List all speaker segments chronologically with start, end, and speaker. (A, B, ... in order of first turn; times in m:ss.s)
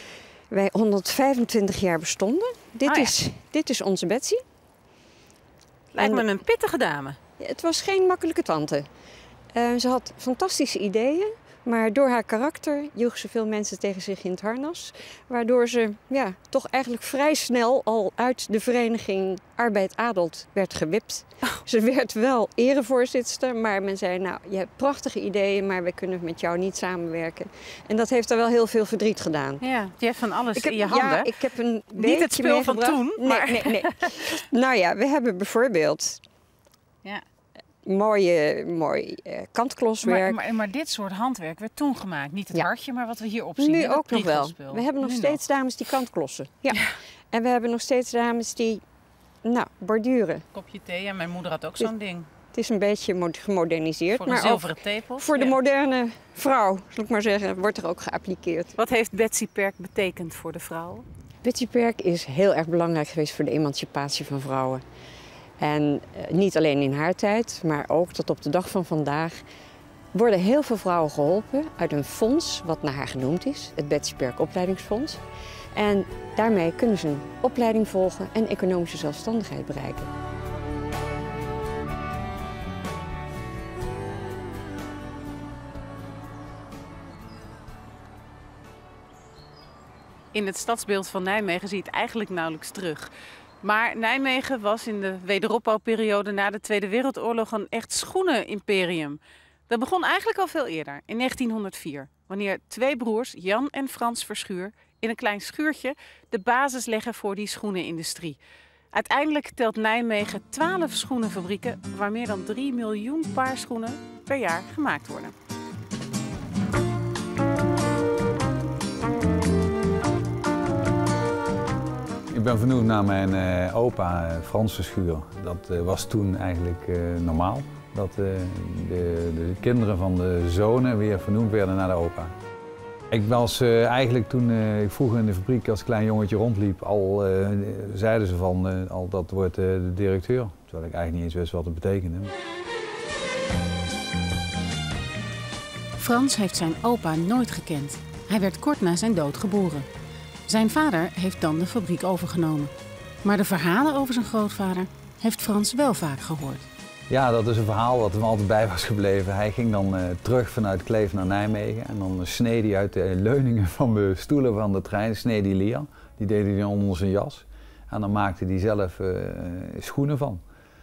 0:00.5-0:04.4 A
0:02.8-0:03.1 B
0:05.9-0:07.2 B
0:06.0-0:06.2 A
0:07.4-0:08.9 A
0:09.5-0:29.6 A
0:29.6-0:31.3 B
0:30.5-0:36.2 A
0:32.0-0:34.1 B
0:37.8-0:40.4 A
0:40.0-0:45.4 B
0:43.6-0:48.8 A
0:49.4-0:50.4 A
0:50.5-0:52.3 B
0:52.5-0:58.7 A
0:54.2-0:55.5 B
0:58.8-1:01.0 B
1:01.4-1:04.8 A
1:05.6-1:09.4 A
1:10.1-1:15.2 A
1:15.7-1:20.1 A
1:30.3-1:33.1 B
1:33.6-1:48.4 B
1:48.9-1:55.3 B
2:02.3-2:12.3 C
2:13.1-2:22.3 C
2:26.0-2:29.9 B
2:30.5-2:32.7 B
2:33.2-2:36.6 B
2:37.1-2:50.4 C